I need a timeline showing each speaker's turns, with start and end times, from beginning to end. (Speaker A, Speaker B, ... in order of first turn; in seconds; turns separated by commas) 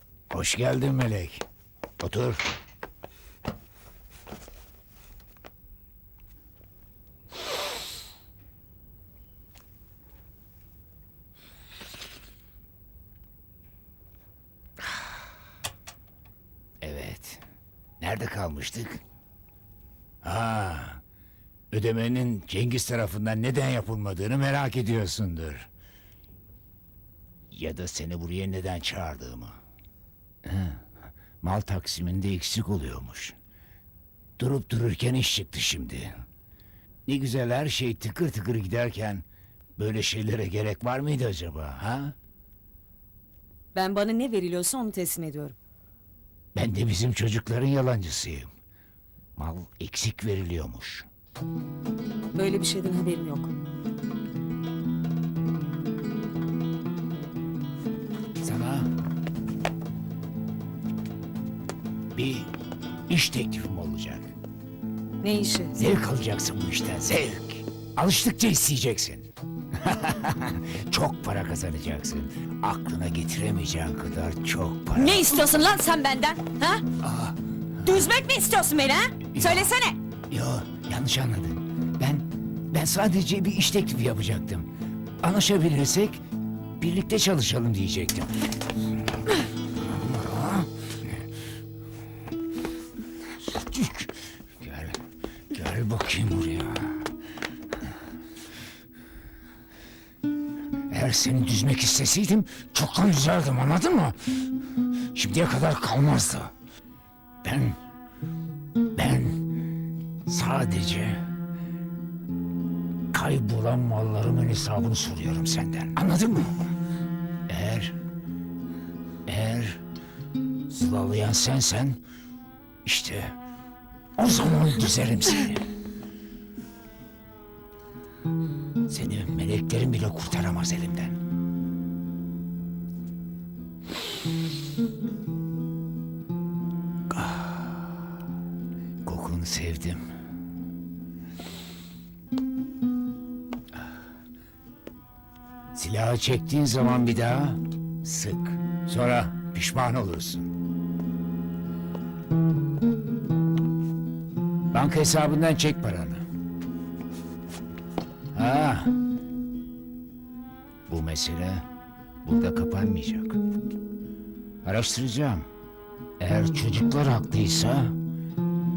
Speaker A: 0.3-1.4, Speaker A: 2.0-2.5, Speaker A: 16.8-17.4, Speaker A: 18.0-19.0, Speaker A: 20.2-21.0, Speaker A: 21.7-25.7, Speaker A: 27.5-29.6, Speaker A: 30.4-30.9, Speaker A: 31.4-33.4, Speaker A: 34.4-36.1, Speaker A: 37.1-39.2, Speaker A: 39.8-42.1, Speaker B: 43.8-45.6, Speaker A: 46.5-48.5, Speaker A: 49.4-51.1, Speaker B: 52.4-53.5, Speaker A: 58.4-58.9, Speaker A: 62.1-62.5, Speaker A: 63.1-64.3, Speaker B: 65.2-65.8, Speaker A: 65.8-75.4, Speaker B: 75.0-76.8, Speaker A: 77.0-77.4, Speaker B: 77.8-80.0, Speaker A: 79.3-79.7, Speaker A: 80.3-84.7, Speaker A: 85.2-86.2, Speaker A: 86.8-88.3, Speaker A: 89.9-90.7, Speaker A: 93.4-97.1, Speaker A: 100.9-104.5, Speaker A: 105.1-106.5, Speaker A: 107.4-107.8, Speaker A: 109.0-109.5, Speaker A: 110.2-111.2, Speaker A: 113.1-116.6, Speaker A: 117.5-118.0, Speaker A: 119.3-119.8, Speaker A: 120.7-122.0, Speaker A: 122.8-123.4, Speaker A: 124.2-125.7, Speaker A: 128.9-131.2, Speaker A: 137.1-137.8, Speaker A: 139.0-140.0, Speaker A: 145.7-150.5, Speaker A: 154.7-156.2, Speaker A: 158.3-158.9, Speaker A: 160.9-161.7, Speaker A: 162.2-163.4, Speaker A: 164.6-165.5, Speaker A: 166.2-168.0